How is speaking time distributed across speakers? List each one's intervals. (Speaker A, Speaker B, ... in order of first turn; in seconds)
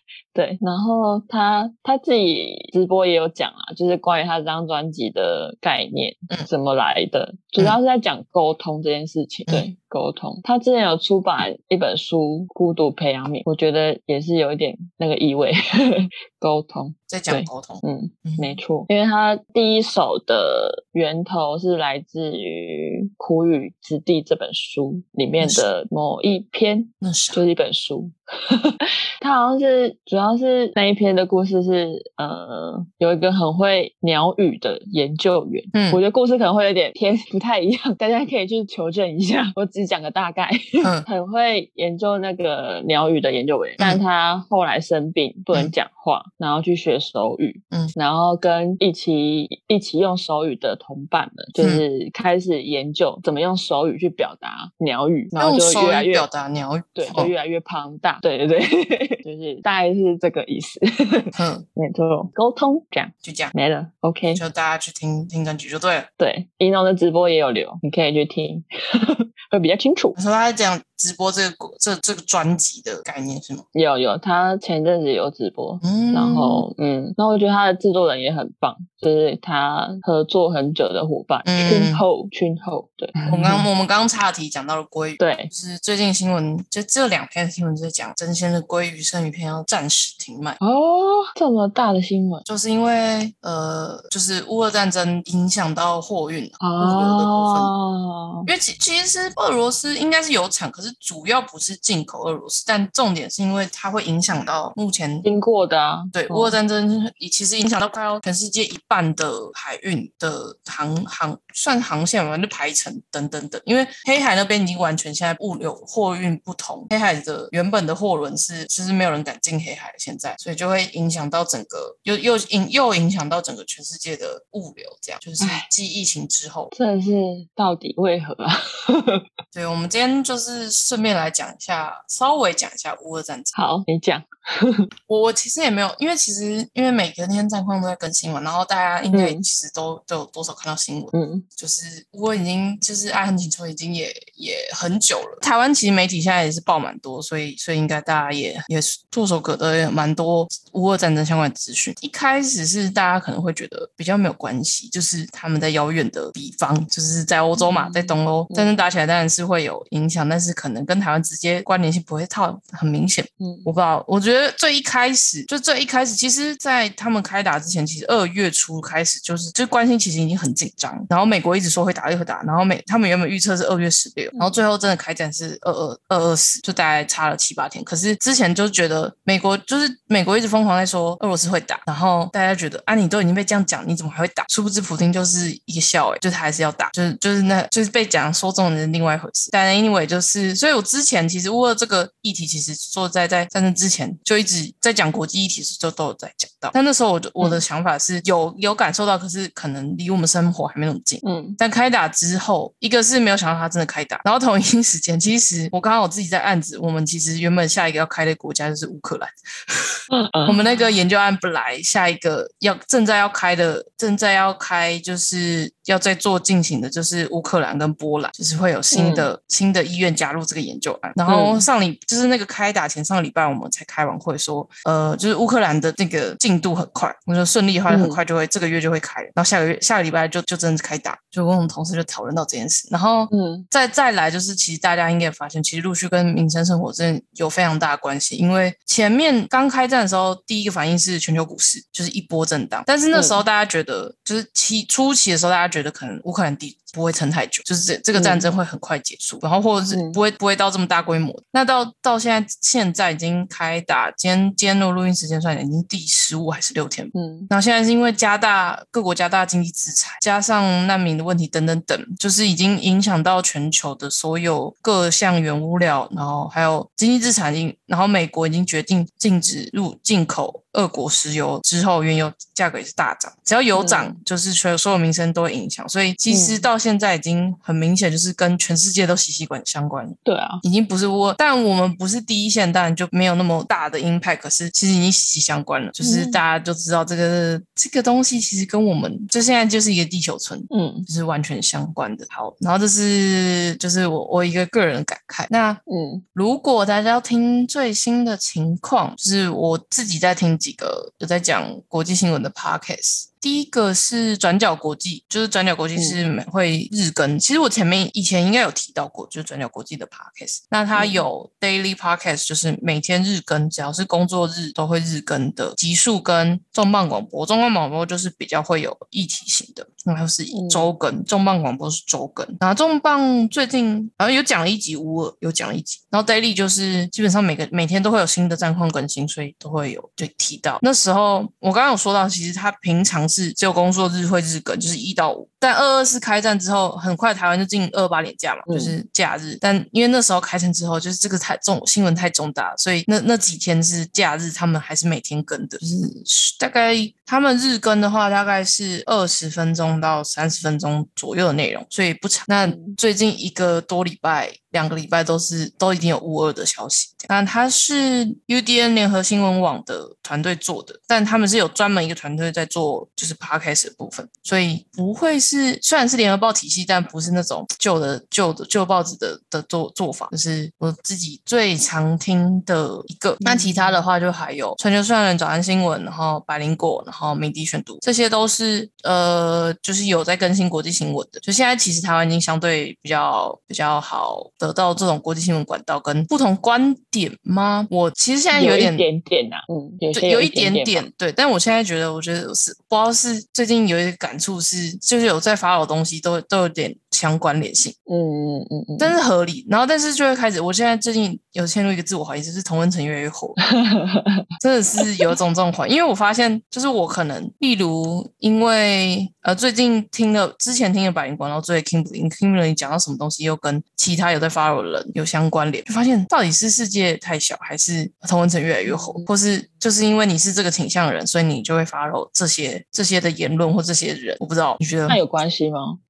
Speaker A: 0.3-56.3, 57.0-64.4, 66.2-70.2, 73.7-83.7, 85.2-85.5, 90.6-92.5, 96.6-98.5, 105.2-106.6, 125.4-125.7, 126.7-129.2, 133.5-134.9, 139.1-139.4, 141.1-141.5, 157.6-158.8, 163.4-163.7, 201.2-201.6, 210.1-210.6, 218.9-219.3, 221.3-221.7, 227.9-228.2, 233.3-233.7, 243.1-243.4, 248.1-248.5, 249.9-250.2, 257.1-257.5, 273.8-274.2, 276.3-276.7, 280.2-280.6, 286.0-286.4, 290.7-291.1, 295.9-296.2, 310.9-311.2, 320.5-320.9, 338.7-339.0, 352.6-353.0, 373.4-374.0, 388.5-391.1, 398.1-399.2, 403.6-404.5, 418.9-419.3, 425.1-426.0
Speaker B: 17.1-18.6, 25.4-25.7, 27.0-27.4, 35.7-36.0, 40.8-41.1, 51.6-51.8, 55.4-57.3, 61.3-61.6, 63.2-63.5, 64.3-66.1, 70.2-73.7, 75.8-76.7, 81.5-82.1, 83.3-90.6, 92.5-97.7, 98.5-105.3, 106.1-126.7, 129.5-133.6, 135.1-295.8, 296.3-389.1, 390.1-398.0, 399.0-403.6, 404.6-425.2